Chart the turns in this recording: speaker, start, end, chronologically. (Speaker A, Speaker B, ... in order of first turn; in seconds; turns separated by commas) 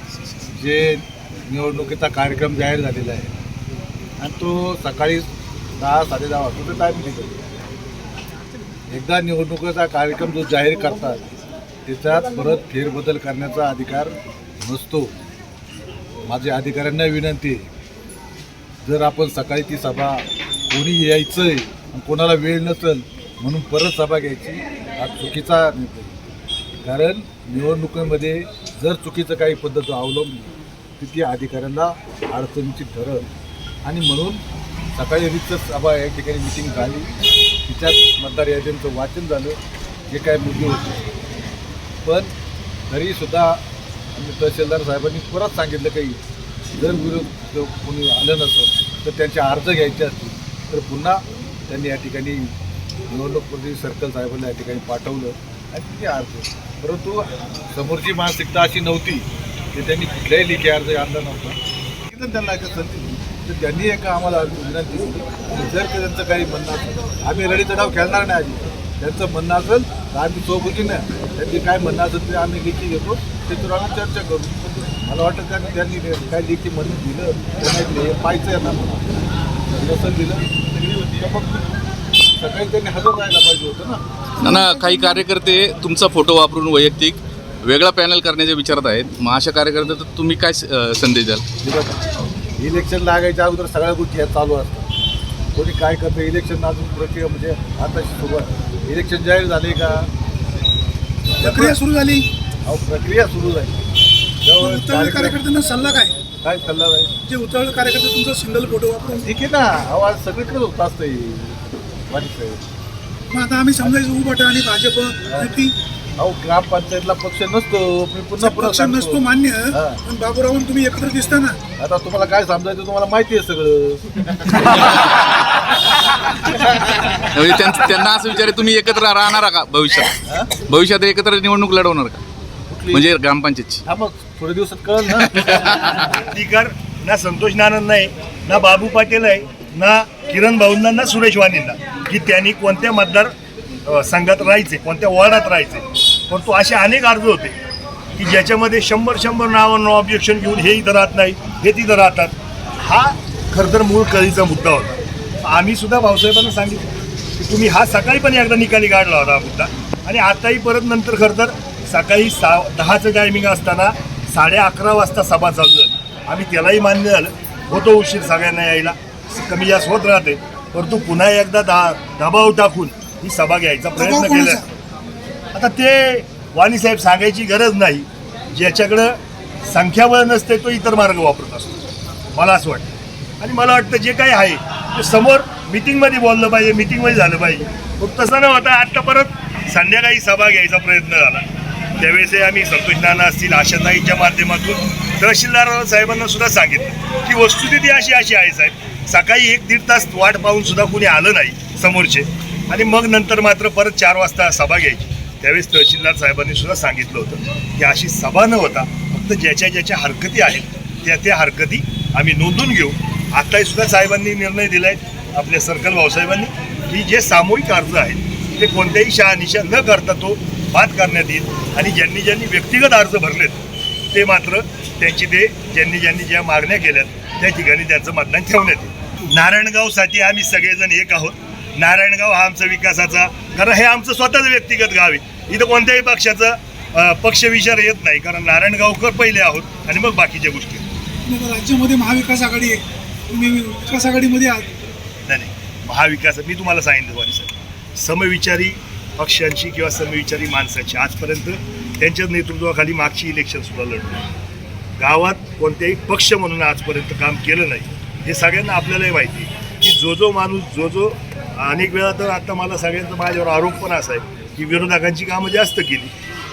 Speaker A: 0.5-3.3, Speaker A: 4.2-7.4, Speaker A: 8.9-11.3, Speaker A: 11.9-15.1, Speaker A: 16.3-17.7, Speaker A: 18.8-26.2, Speaker A: 26.8-33.3, Speaker A: 33.9-34.4, Speaker A: 34.9-39.6, Speaker A: 40.1-41.0, Speaker A: 42.0-42.3, Speaker A: 42.9-43.6, Speaker A: 44.1-46.2, Speaker A: 46.8-52.5, Speaker A: 53.1-79.2, Speaker A: 79.7-81.8, Speaker A: 82.4-84.0, Speaker B: 84.4-91.5, Speaker A: 91.6-92.0, Speaker A: 92.6-94.9, Speaker A: 95.5-100.1, Speaker A: 101.4-101.8, Speaker C: 101.4-102.2, Speaker A: 102.7-103.8, Speaker A: 104.4-105.4, Speaker C: 104.6-106.2, Speaker A: 106.4-107.1, Speaker C: 107.2-109.2, Speaker A: 109.2-112.7, Speaker C: 113.3-115.8, Speaker A: 116.2-120.0, Speaker C: 118.4-121.6, Speaker A: 121.8-124.0, Speaker B: 127.3-132.2, Speaker A: 130.3-130.6, Speaker A: 132.7-133.1, Speaker B: 132.9-133.8, Speaker A: 133.8-135.6, Speaker D: 136.3-143.3, Speaker D: 143.8-147.6, Speaker D: 148.2-174.6, Speaker C: 173.9-174.7, Speaker D: 175.5-191.4, Speaker D: 192.0-223.6, Speaker D: 224.1-240.9, Speaker C: 241.3-244.8, Speaker D: 245.3-254.3, Speaker D: 255.0-266.1